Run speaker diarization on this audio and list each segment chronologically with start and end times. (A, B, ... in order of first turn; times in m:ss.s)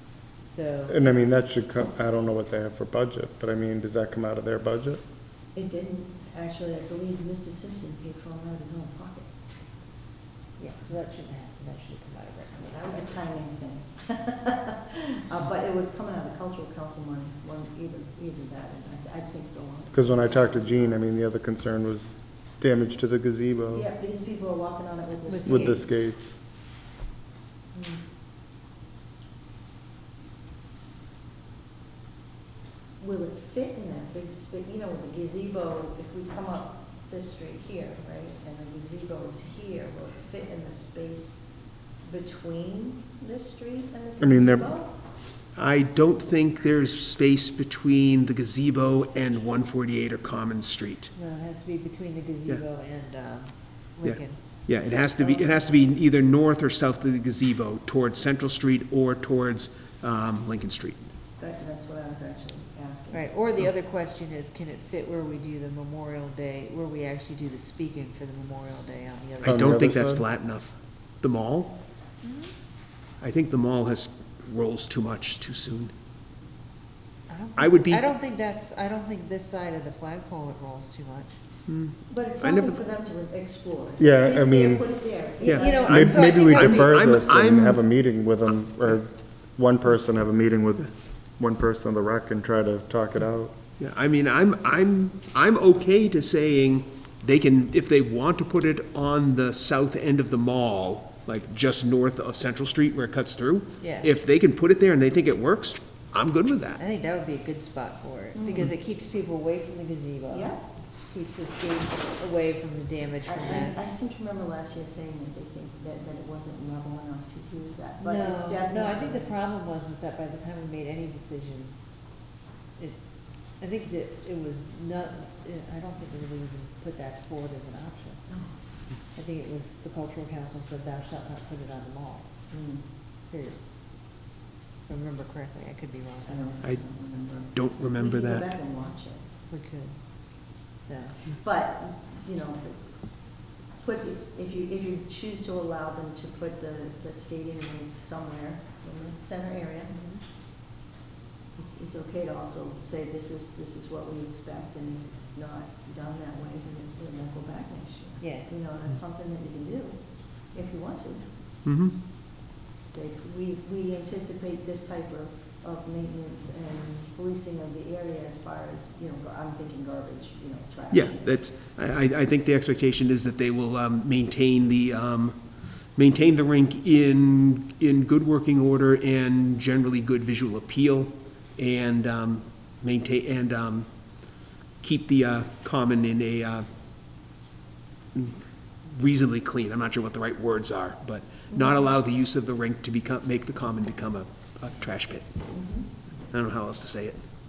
0:00.4-0:01.2 A
0:00.9-0:05.0 B
0:05.5-0:09.3 C
0:10.6-0:13.1 A
0:12.6-0:21.0 C
0:19.9-0:23.8 B
0:23.7-0:26.0 C
0:25.3-0:25.9 A
0:25.4-0:26.4 B
0:27.7-0:28.0 C
0:33.0-0:44.9 C
0:44.2-0:44.7 B
0:45.5-0:51.1 D
0:51.1-0:54.8 A
0:54.0-1:01.1 D
0:55.2-0:55.6 C
1:01.4-1:03.4 C
1:03.1-1:09.8 A
1:09.4-1:10.2 B
1:09.4-1:11.8 D
1:12.2-1:12.5 A
1:13.2-1:15.9 D
1:17.3-1:21.4 A
1:17.6-1:18.0 D
1:21.7-1:22.8 D
1:22.1-1:26.4 C
1:24.0-1:25.1 B
1:25.4-1:27.8 D
1:25.4-1:27.0 A
1:25.9-1:33.5 B
1:33.8-1:46.8 D
1:43.8-1:44.1 A
1:46.8-1:53.8 A
1:48.3-1:48.7 C
1:50.3-1:50.6 C
1:53.2-1:59.3 C
1:58.0-2:01.8 A
2:02.8-2:12.5 A
2:08.3-2:08.5 C
2:12.5-2:12.9 C
2:13.3-2:13.6 A
2:14.9-2:16.5 A
2:16.2-2:19.2 C
2:16.6-2:18.5 D
2:19.5-2:21.2 A
2:21.4-2:29.9 C
2:29.9-2:30.2 A
2:31.6-2:41.3 C
2:38.2-2:38.5 A
2:41.6-2:42.0 D
2:42.8-2:51.4 C
2:50.9-3:06.7 D
3:08.1-3:15.5 D
3:11.5-3:11.8 C
3:15.5-3:15.9 C
3:16.3-3:17.2 D